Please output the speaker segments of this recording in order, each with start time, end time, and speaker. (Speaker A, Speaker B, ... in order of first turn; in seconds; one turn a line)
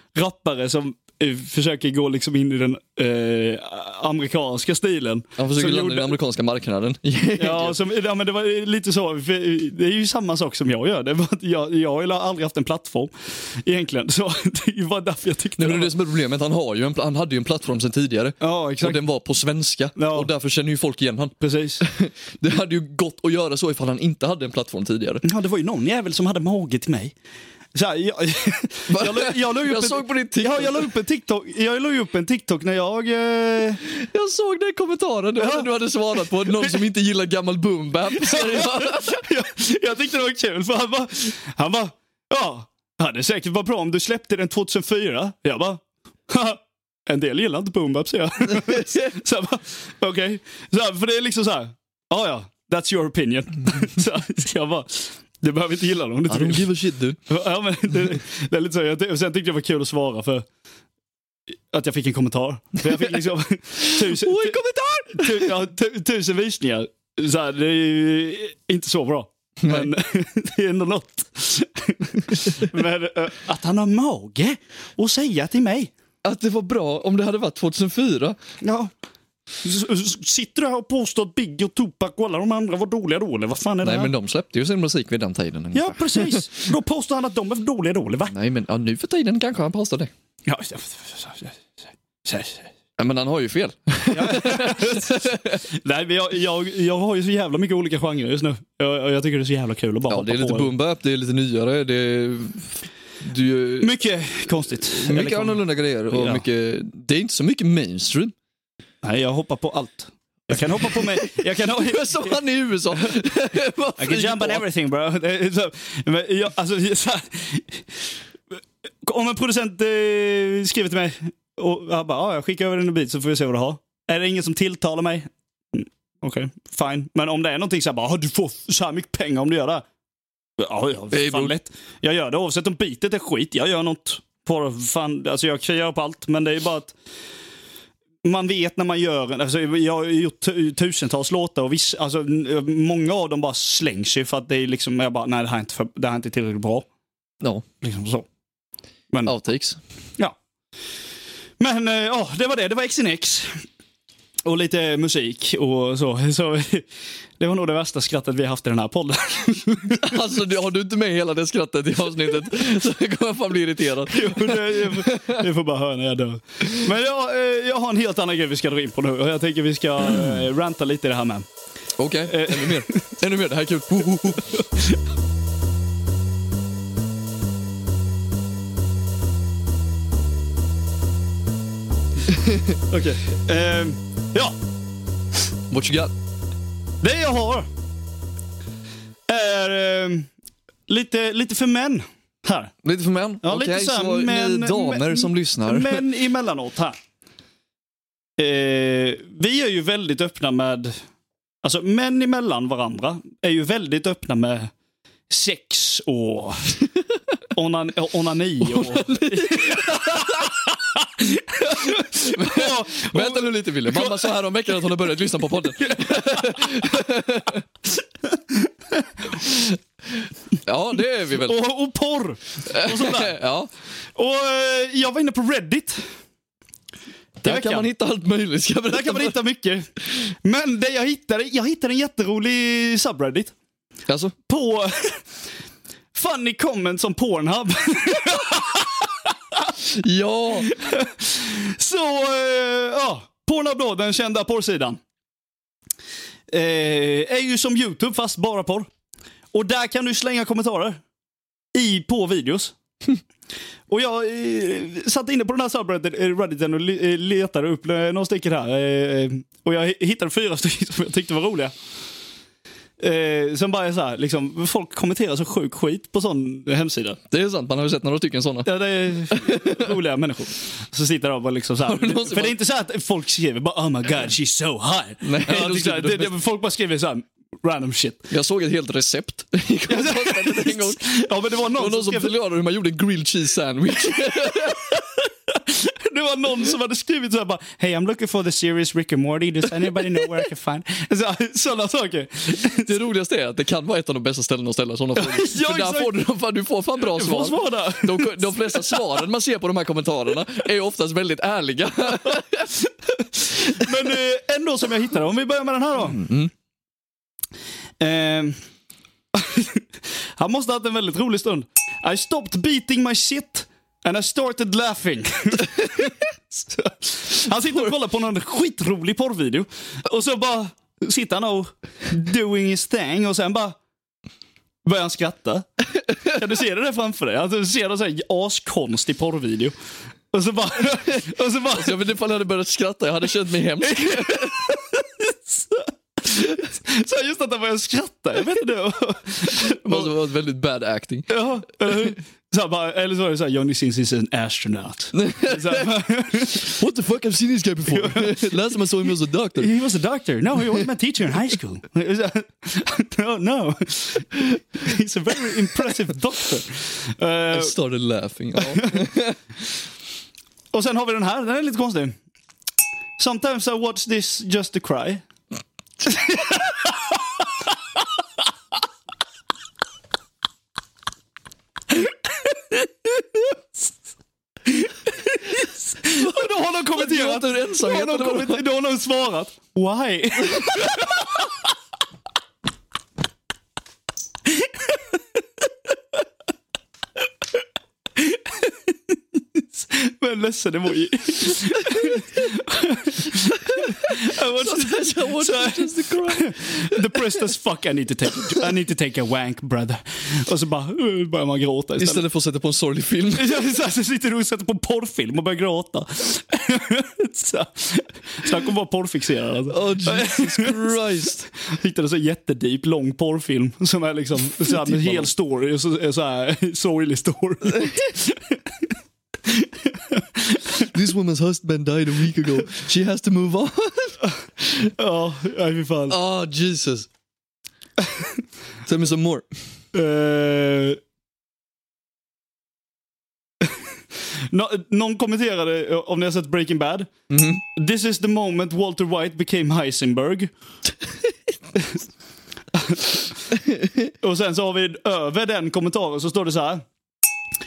Speaker A: 0.1-6.2
Speaker B: 5.4-7.8
Speaker A: 7.4-15.9
Speaker B: 15.6-25.2
Speaker A: 18.4-19.0
Speaker A: 20.0-20.3
Speaker A: 21.4-21.8
Speaker A: 25.2-27.1
Speaker A: 27.7-33.8
Speaker B: 28.9-30.9
Speaker B: 34.0-39.2
Speaker A: 35.4-35.7
Speaker A: 36.5-36.8
Speaker A: 38.2-56.7
Speaker B: 48.6-49.1
Speaker B: 56.3-57.2
Speaker A: 57.3-60.5
Speaker A: 61.7-64.6
Speaker B: 63.9-65.5
Speaker A: 65.1-75.9
Speaker B: 69.6-69.9
Speaker B: 76.2-78.4
Speaker A: 78.6-78.9
Speaker A: 79.6-84.1
Speaker B: 83.8-86.7
Speaker A: 85.7-88.3
Speaker B: 88.3-90.1
Speaker A: 90.5-92.7
Speaker B: 93.0-95.6
Speaker A: 94.1-100.7
Speaker B: 100.1-103.9
Speaker A: 103.8-106.4
Speaker B: 104.9-108.3
Speaker A: 109.0-112.4
Speaker B: 110.8-114.6
Speaker A: 114.0-117.9
Speaker A: 119.0-129.8
Speaker A: 130.6-136.9
Speaker B: 131.1-131.5
Speaker A: 138.2-146.9
Speaker A: 147.8-148.3
Speaker B: 149.2-149.8
Speaker A: 151.6-153.6
Speaker A: 154.4-156.9
Speaker A: 157.4-160.2
Speaker B: 160.0-165.4
Speaker A: 164.1-171.5
Speaker B: 172.0-174.6
Speaker A: 172.3-173.0
Speaker A: 174.6-174.9
Speaker B: 182.3-182.8
Speaker A: 182.9-184.6
Speaker B: 185.7-186.1
Speaker A: 187.0-187.7
Speaker A: 189.3-190.3
Speaker A: 190.9-192.7
Speaker B: 192.8-196.0
Speaker A: 193.4-196.9
Speaker A: 198.4-201.0
Speaker A: 201.6-204.7
Speaker A: 205.3-206.8
Speaker A: 207.5-214.4
Speaker B: 208.6-210.5
Speaker B: 212.2-217.6
Speaker A: 215.8-216.7
Speaker A: 218.5-219.4
Speaker B: 220.6-221.6
Speaker A: 221.3-223.4
Speaker B: 222.7-223.7
Speaker A: 224.1-226.1
Speaker B: 227.4-229.4
Speaker A: 227.4-227.9
Speaker A: 228.9-229.9
Speaker A: 230.4-233.5
Speaker B: 234.1-234.4
Speaker A: 234.5-235.2
Speaker A: 236.1-239.8
Speaker B: 239.9-240.7
Speaker A: 240.6-245.0
Speaker A: 246.5-248.9
Speaker A: 249.5-251.0
Speaker A: 251.8-252.8
Speaker A: 253.9-261.7
Speaker A: 263.0-267.2
Speaker B: 267.3-269.9
Speaker A: 268.6-278.3
Speaker B: 271.8-272.6
Speaker B: 275.2-276.4
Speaker B: 278.3-285.0
Speaker A: 279.9-282.4
Speaker A: 284.6-292.9
Speaker B: 292.7-302.8
Speaker A: 295.1-296.1
Speaker A: 297.0-299.2
Speaker A: 302.8-306.3
Speaker B: 306.1-306.5
Speaker A: 308.0-308.6
Speaker A: 309.3-323.8
Speaker A: 324.8-325.7
Speaker A: 326.3-329.8
Speaker A: 330.3-332.0
Speaker B: 331.7-334.8
Speaker A: 333.8-340.1
Speaker B: 339.6-341.5
Speaker A: 341.3-346.7
Speaker B: 345.1-349.7
Speaker A: 347.9-348.8
Speaker A: 349.6-357.7
Speaker B: 357.5-359.4
Speaker A: 358.6-359.0
Speaker A: 360.7-362.1
Speaker A: 363.2-365.2
Speaker A: 366.0-367.4
Speaker A: 371.9-373.6
Speaker A: 374.6-381.5
Speaker B: 376.1-378.6
Speaker B: 380.5-381.0
Speaker A: 384.4-385.9
Speaker A: 388.1-402.2
Speaker B: 391.9-392.2
Speaker B: 393.7-397.4
Speaker B: 402.0-403.6
Speaker A: 403.4-410.9
Speaker B: 409.7-411.5
Speaker A: 411.6-418.6
Speaker B: 414.7-415.3
Speaker B: 417.7-418.0
Speaker A: 419.5-420.6
Speaker B: 420.8-424.2
Speaker A: 425.0-426.2
Speaker B: 426.1-427.1
Speaker B: 428.9-429.4
Speaker A: 429.9-431.0
Speaker A: 434.5-437.1
Speaker B: 437.3-437.6
Speaker A: 437.6-440.5
Speaker A: 442.7-443.2
Speaker A: 444.2-446.9